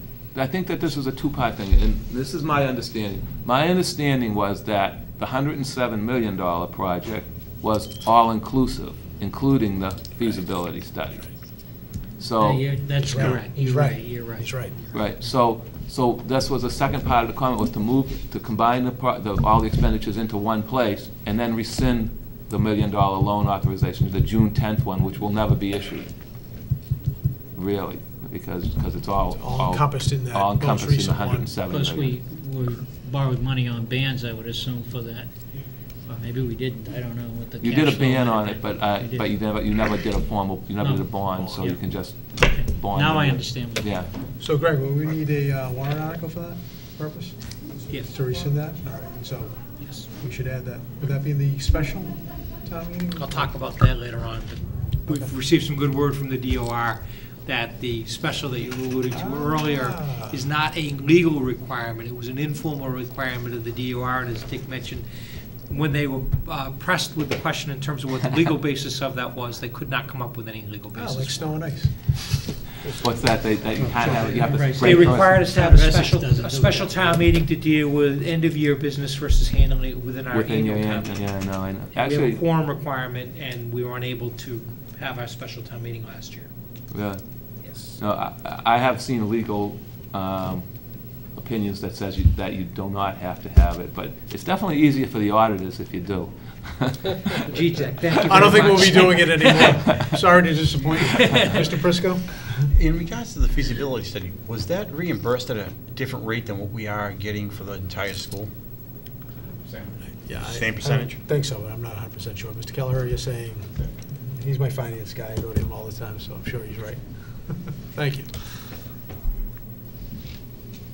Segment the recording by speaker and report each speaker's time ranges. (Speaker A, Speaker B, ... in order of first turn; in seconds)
Speaker A: 0.3-11.3, 12.2-12.9, 14.9-26.1, 27.6-32.2, 37.6-44.1, 73.0-75.4, 80.3-82.4, 86.9-90.7, 91.3-97.4, 98.1-100.0
Speaker B: 12.4-15.1, 31.7-35.3, 36.1-39.3, 40.8-41.8, 42.3-44.0, 74.0-77.2
Speaker C: 13.0-14.7, 29.3-31.5, 44.4-47.4, 47.9-53.6, 55.1-55.4, 59.1-60.4, 70.9-71.9, 72.6-73.0, 73.8-74.5, 98.2-102.7, 110.1-118.5
Speaker D: 47.9-48.1, 49.8-50.1, 53.2-65.1, 65.7-71.6, 74.8-81.4, 81.9-86.5, 87.6-88.0, 97.5-99.2, 101.2-101.5
Speaker E: 102.7-108.5, 110.5-111.1